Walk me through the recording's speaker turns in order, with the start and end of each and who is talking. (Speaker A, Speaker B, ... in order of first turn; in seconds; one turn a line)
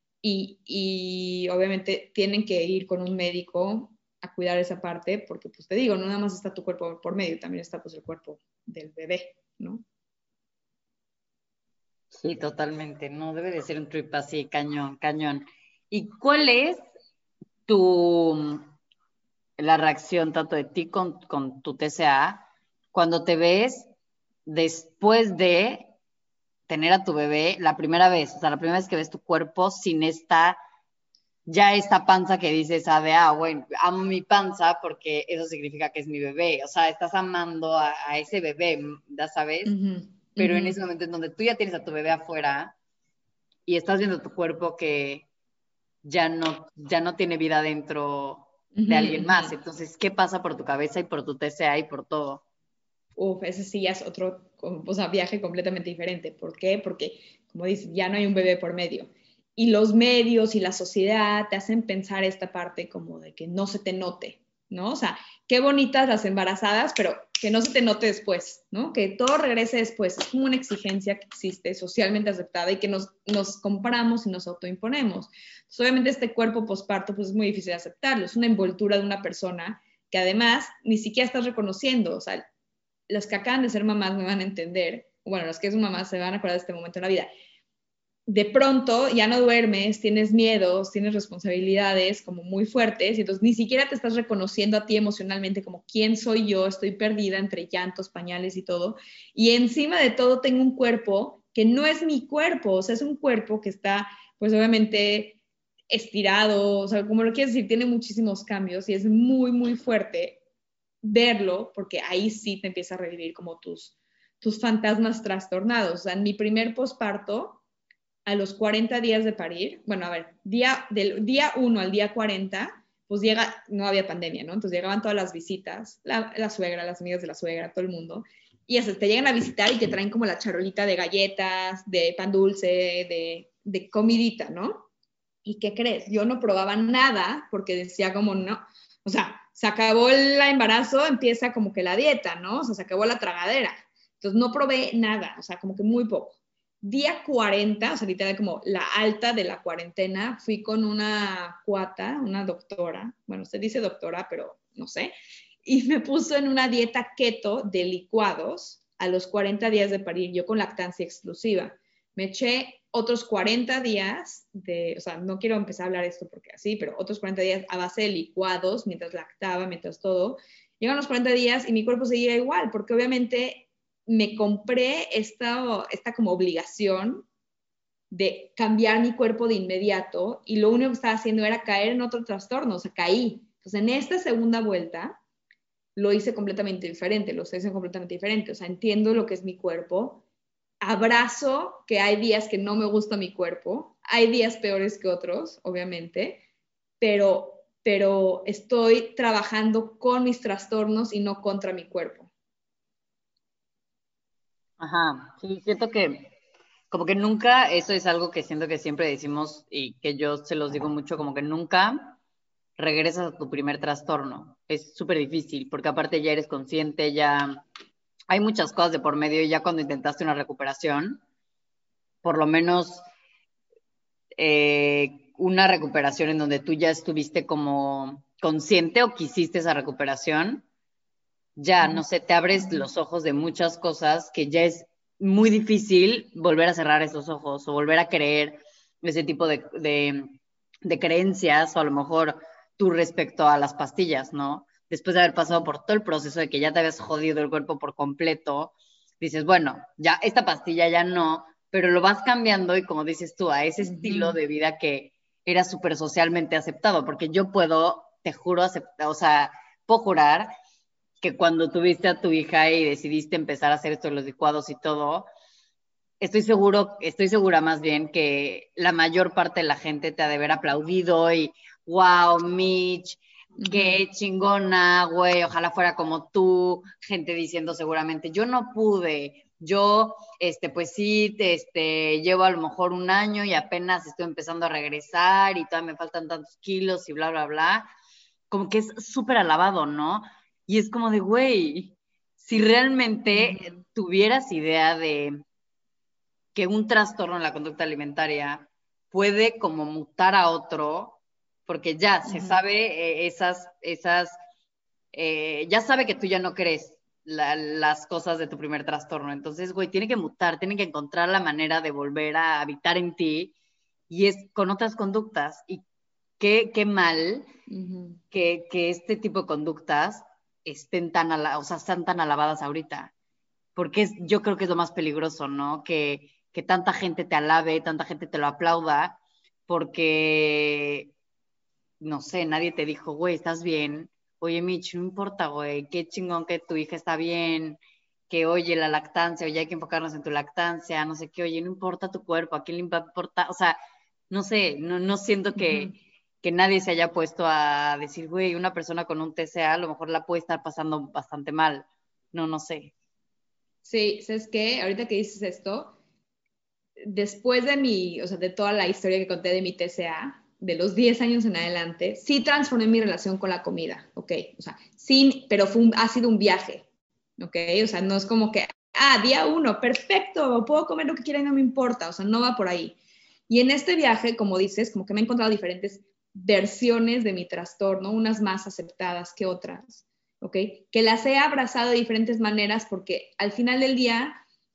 Speaker A: 0.2-9.8
Speaker B: 12.1-16.8
Speaker B: 17.7-18.7
Speaker B: 19.6-23.9
Speaker B: 24.4-25.9
Speaker B: 26.7-30.6
Speaker B: 31.4-39.7
Speaker A: 39.6-40.8
Speaker B: 40.4-42.7
Speaker B: 43.7-45.2
Speaker B: 46.0-52.4
Speaker A: 48.7-49.5
Speaker A: 53.2-82.4
Speaker A: 83.1-87.3
Speaker A: 88.3-105.4
Speaker A: 105.9-110.4
Speaker A: 111.0-117.6
Speaker A: 118.2-134.9
Speaker A: 135.4-155.1
Speaker A: 155.6-177.3
Speaker A: 178.1-185.2
Speaker A: 185.9-190.2
Speaker A: 190.8-196.4
Speaker A: 197.0-202.3
Speaker B: 204.8-206.3
Speaker B: 206.9-212.2
Speaker B: 212.8-217.6
Speaker B: 218.3-221.2
Speaker B: 222.2-223.1
Speaker B: 224.4-230.6
Speaker B: 231.6-260.5
Speaker A: 232.6-232.8
Speaker A: 253.8-254.4
Speaker B: 261.2-265.3
Speaker B: 266.2-287.9
Speaker A: 273.6-274.0
Speaker B: 288.5-295.4
Speaker A: 293.3-293.8
Speaker B: 296.5-304.3
Speaker A: 302.2-302.6
Speaker B: 305.1-313.5
Speaker B: 314.1-315.8
Speaker B: 316.4-317.5
Speaker A: 317.7-318.2
Speaker B: 318.3-323.1
Speaker B: 323.8-331.1
Speaker B: 332.0-337.8
Speaker B: 338.3-343.8
Speaker B: 344.3-352.9
Speaker A: 345.6-345.9
Speaker A: 353.8-355.9
Speaker A: 357.0-366.8
Speaker A: 367.4-373.0
Speaker A: 373.5-384.4